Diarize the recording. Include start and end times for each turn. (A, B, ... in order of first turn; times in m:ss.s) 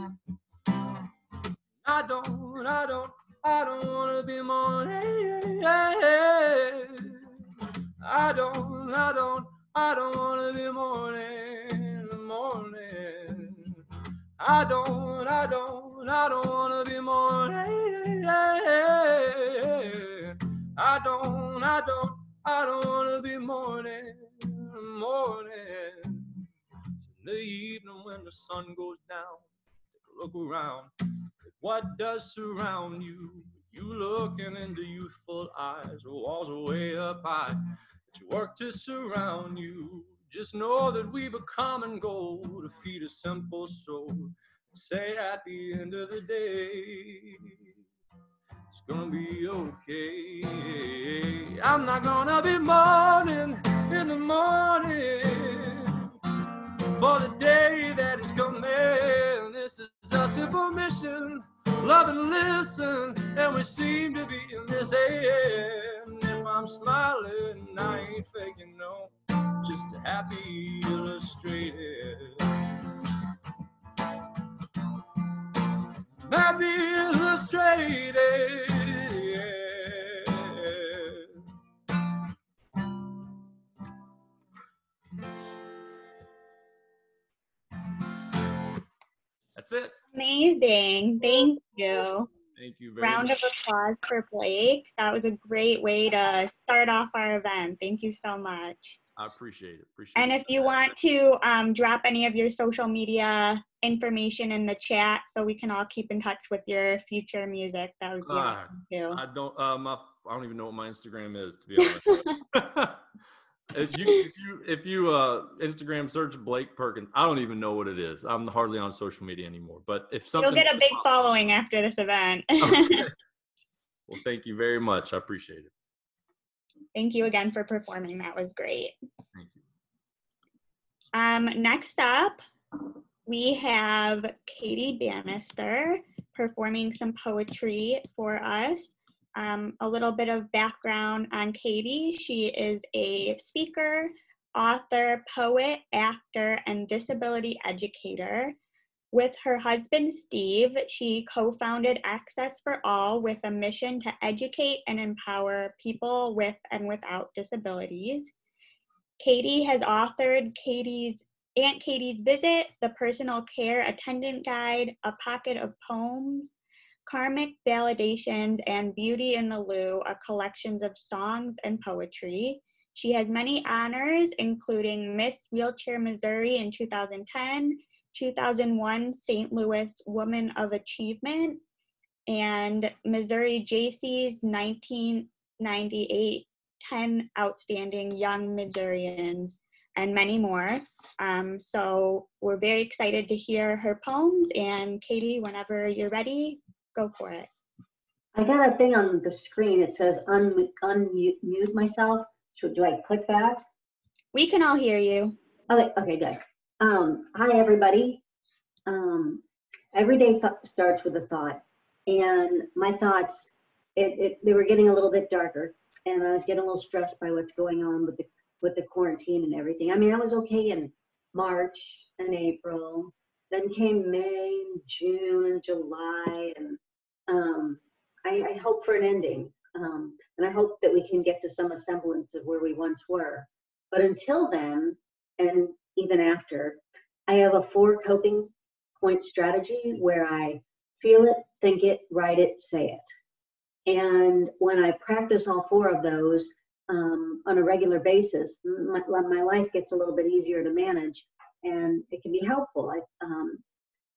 0:01.8-0:07.3 A
0:08.0-0:13.7 A
0:14.4-0:26.4 A
0:27.0-0:30.9 A
0:31.5-0:47.5 A
0:48.7-0:56.0 A
0:57.0-1:12.5 A
1:16.3-1:21.3 A
1:29.6-1:30.0 A
1:30.1-1:32.3 B
1:32.6-1:33.4 A
1:33.0-1:39.0 B
1:39.2-1:40.9 A
1:40.2-1:49.2 B
1:48.2-1:53.0 A
1:53.7-2:01.2 A
2:00.4-2:03.0 B
2:02.6-2:03.1 A
2:04.1-2:05.7 A
2:06.9-2:09.0 B
2:11.1-2:12.4 B
2:13.2-2:28.6 B
2:29.1-2:38.3 B
2:39.2-2:46.5 B
2:47.1-3:01.6 B
3:02.3-3:17.5 B
3:18.3-3:23.6 C
3:24.3-3:25.4 B
3:25.7-3:28.2 C
3:28.9-4:03.1 C
4:03.8-4:13.6 C